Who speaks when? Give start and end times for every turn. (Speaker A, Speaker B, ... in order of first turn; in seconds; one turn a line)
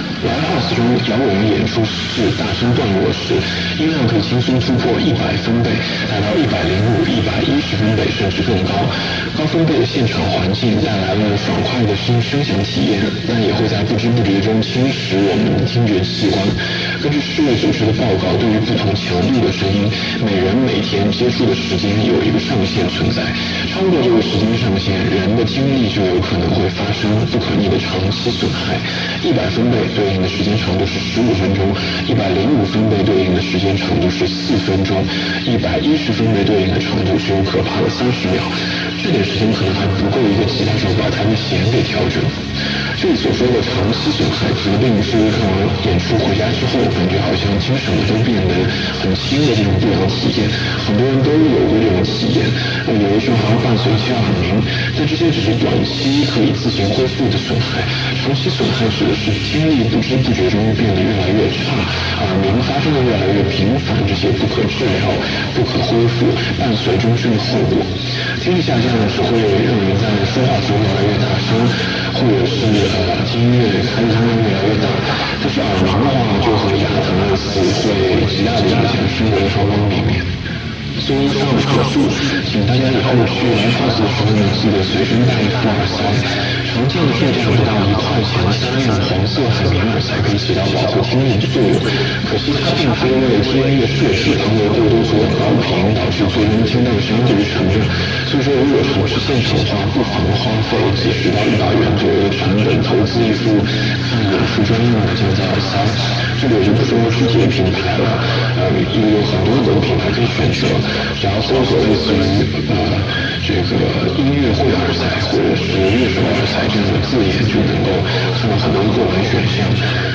Speaker A: 0.2-80.3
Speaker A: 81.0-120.0